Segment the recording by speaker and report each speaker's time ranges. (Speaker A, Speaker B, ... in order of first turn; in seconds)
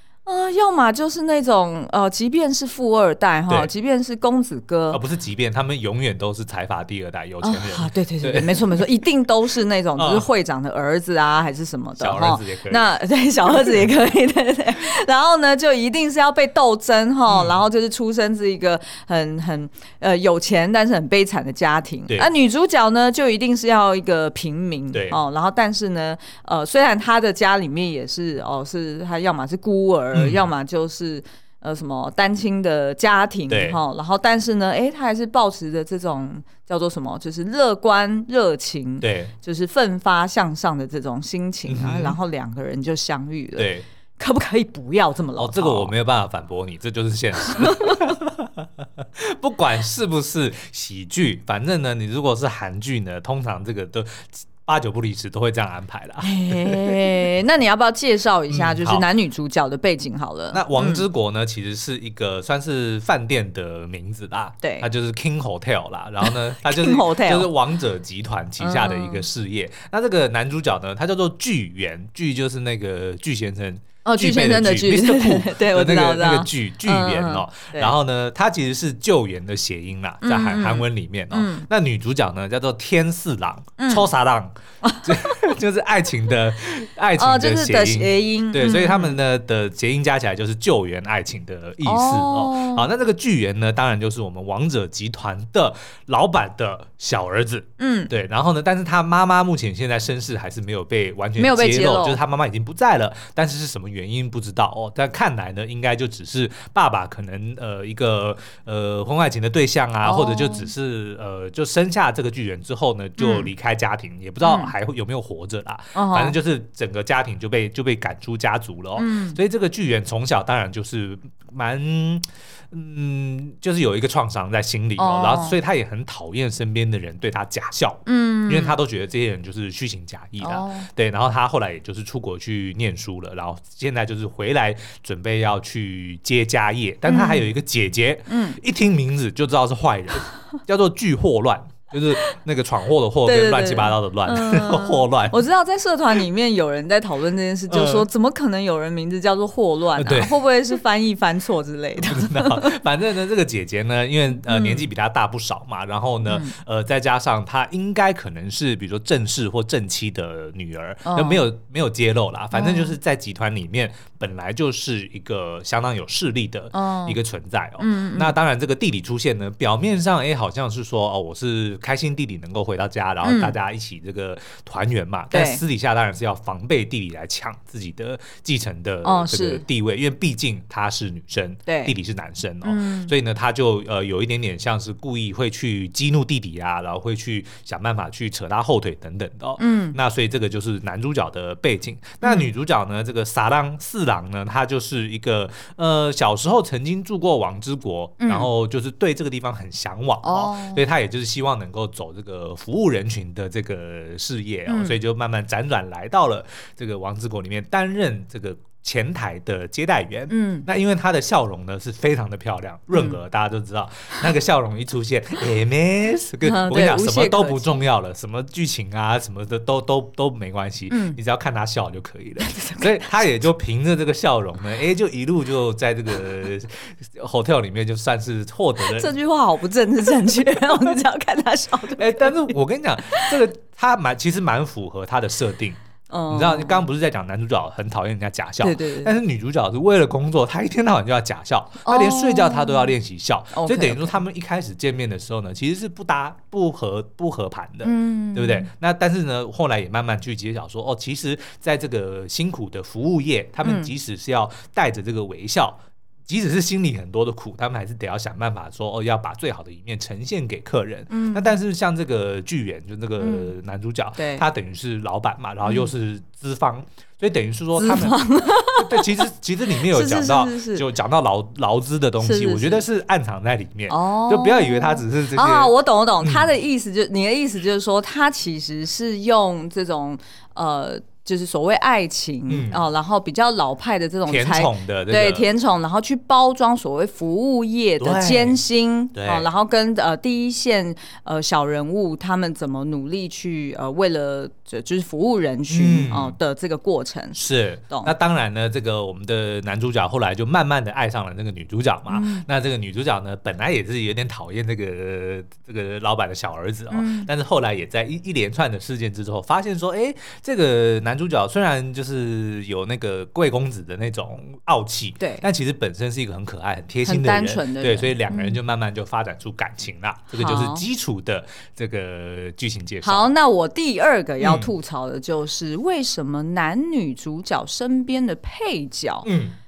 Speaker A: 0.2-5.0, 7.4-45.9, 47.4-48.1, 56.2-61.0, 66.2-67.5, 68.6-69.2, 74.0-77.9, 80.2-81.7, 83.8-84.1, 84.8-85.4, 87.2-89.2, 91.8-92.9, 97.8-98.1, 101.4-102.2, 110.0-110.7, 113.2-113.5, 114.4-114.7, 115.9-116.3, 119.0-119.4, 125.0-125.5, 128.1-128.8, 130.4-130.9, 137.1-137.5, 138.3-138.6, 143.2-152.8, 154.4-154.9, 156.2-156.5, 161.0-161.4, 162.5-162.9, 166.7-167.2, 167.8-168.3, 173.2-173.5, 175.3-175.6, 179.0-179.6, 181.7-181.9, 182.6-183.1, 189.6-190.0, 192.2-192.5, 198.2-198.5, 200.2-200.8, 204.7-205.0, 210.3-210.7, 216.4-217.8, 220.9-221.2, 222.4-223.1, 228.9-233.3, 236.1-236.8, 238.6-239.1, 241.8-242.9, 243.5-244.2, 247.8-248.7, 253.6-253.9, 261.1-261.6, 263.2-263.5, 264.1-264.4, 265.6-265.9, 267.8-270.8, 272.2-272.8, 273.9-298.1, 302.1-302.4, 306.9-307.3, 315.2-315.4, 317.1-318.6, 320.3-320.8, 323.0-329.3
Speaker B: 4.9-8.8, 10.0-10.2, 12.0-12.8, 17.3-17.6, 30.1-30.4, 33.5-33.8, 39.0-39.3, 41.7-42.1, 43.6-43.9, 45.4-57.0, 58.5-59.0, 60.5-84.5, 85.0-145.4, 147.7-148.1, 149.9-150.4, 152.0-229.1, 231.9-275.7, 276.2-276.5, 282.5-282.8, 284.3-285.5, 288.0-288.6, 289.1-289.5, 295.7-296.4, 297.4-323.3, 324.4-324.7, 329.2-329.6